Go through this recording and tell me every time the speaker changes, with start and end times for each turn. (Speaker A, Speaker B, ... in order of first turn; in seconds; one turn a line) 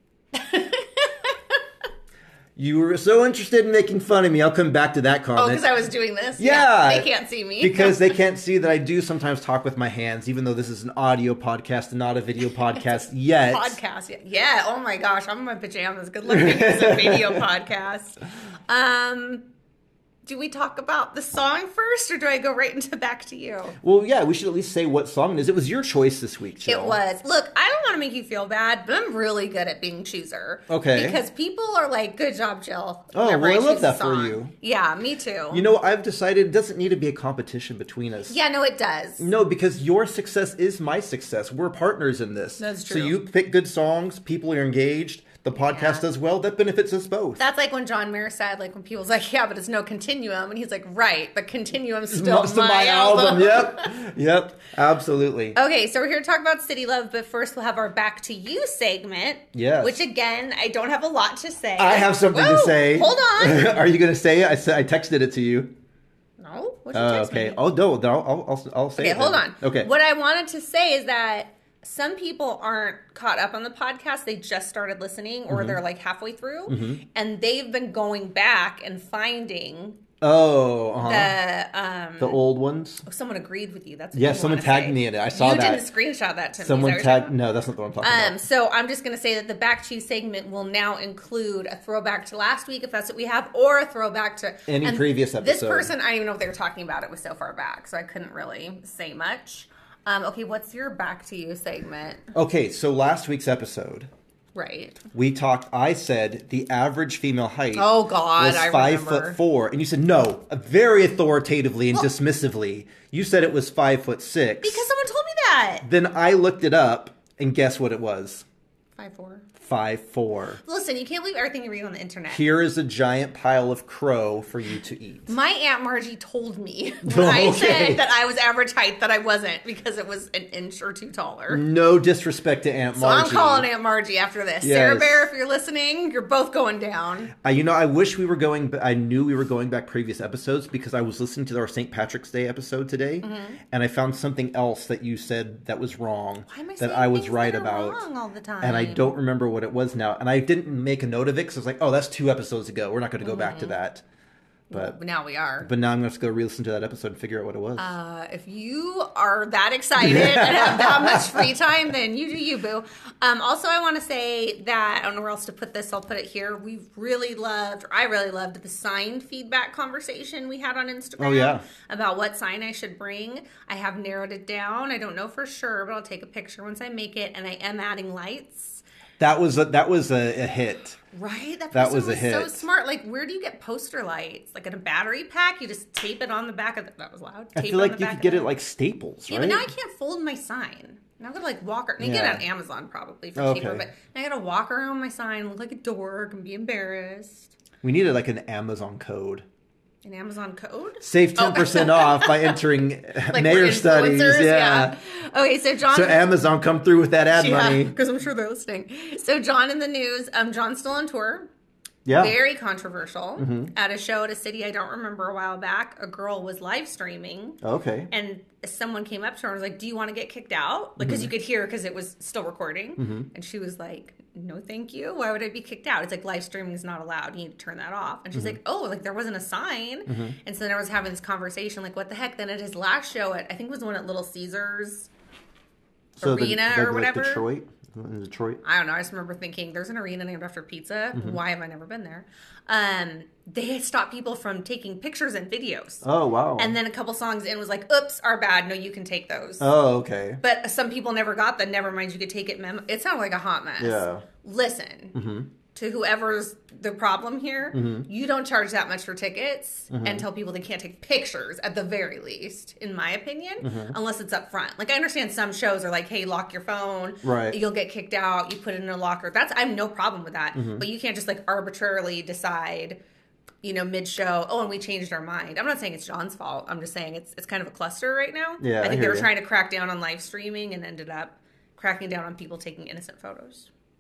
Speaker A: 0.3-1.4
Speaker B: 2.6-5.7
Speaker A: 5.4-8.2
Speaker B: 6.4-13.8
Speaker A: 12.7-19.4
Speaker B: 16.3-17.4
Speaker A: 20.3-23.8
Speaker B: 23.8-27.0
Speaker A: 26.6-35.6
Speaker B: 30.7-31.2
Speaker B: 33.1-34.5
Speaker B: 35.5-38.4
Speaker A: 38.3-39.3
Speaker B: 39.2-47.4
Speaker A: 42.6-43.2
Speaker A: 45.7-46.0
Speaker A: 47.4-54.0
Speaker B: 52.1-55.6
Speaker A: 55.5-63.7
Speaker B: 59.5-60.0
Speaker B: 61.8-65.7
Speaker A: 66.4-67.6
Speaker B: 66.9-69.9
Speaker A: 69.0-80.0
Speaker B: 75.5-75.8
Speaker B: 76.7-77.0
Speaker B: 80.2-81.3
Speaker A: 81.0-82.4
Speaker B: 82.2-83.0
Speaker A: 83.1-87.3
Speaker B: 84.1-85.9
Speaker B: 86.6-88.4
Speaker A: 88.0-102.3
Speaker B: 94.7-95.9
Speaker B: 102.3-104.1
Speaker A: 104.5-105.0
Speaker B: 105.1-114.9
Speaker A: 107.8-109.4
Speaker A: 114.6-115.9
Speaker B: 115.8-118.5
Speaker A: 119.0-119.5
Speaker B: 119.6-120.6
Speaker A: 120.7-122.4
Speaker B: 122.3-125.3
Speaker A: 125.3-131.6
Speaker B: 127.0-128.0
Speaker B: 131.5-133.7
Speaker A: 132.9-137.3
Speaker B: 134.6-135.3
Speaker B: 137.4-148.1
Speaker A: 143.2-143.6
Speaker A: 146.5-149.2
Speaker B: 148.6-154.0
Speaker A: 153.2-153.8
Speaker A: 154.7-155.7
Speaker B: 155.6-157.9
Speaker A: 157.8-178.8
Speaker B: 160.0-161.5
Speaker B: 171.2-171.7
Speaker B: 179.2-181.0
Speaker A: 181.1-188.5
Speaker B: 181.7-182.7
Speaker B: 187.6-189.7
Speaker A: 189.3-197.6
Speaker B: 192.0-192.4
Speaker B: 193.4-193.9
Speaker B: 197.8-199.4
Speaker A: 200.0-202.6
Speaker B: 201.0-205.0
Speaker A: 203.3-206.2
Speaker B: 205.9-208.0
Speaker A: 207.3-211.5
Speaker B: 212.1-212.4
Speaker A: 212.2-217.6
Speaker B: 213.4-213.7
Speaker B: 217.6-218.1
Speaker A: 218.1-235.1
Speaker B: 221.0-221.3
Speaker B: 223.0-223.3
Speaker B: 230.1-230.4
Speaker B: 236.2-238.6
Speaker A: 236.2-237.4
Speaker A: 238.6-246.1
Speaker B: 241.1-241.4
Speaker B: 246.0-246.8
Speaker A: 246.6-249.7
Speaker B: 249.6-250.4
Speaker A: 250.4-255.2
Speaker B: 253.8-254.2
Speaker B: 255.1-255.5
Speaker A: 255.7-273.0
Speaker B: 257.7-258.1
Speaker B: 259.9-260.3
Speaker B: 263.6-264.0
Speaker B: 267.2-267.6
Speaker B: 270.6-270.9
Speaker A: 273.6-283.7
Speaker B: 278.6-279.3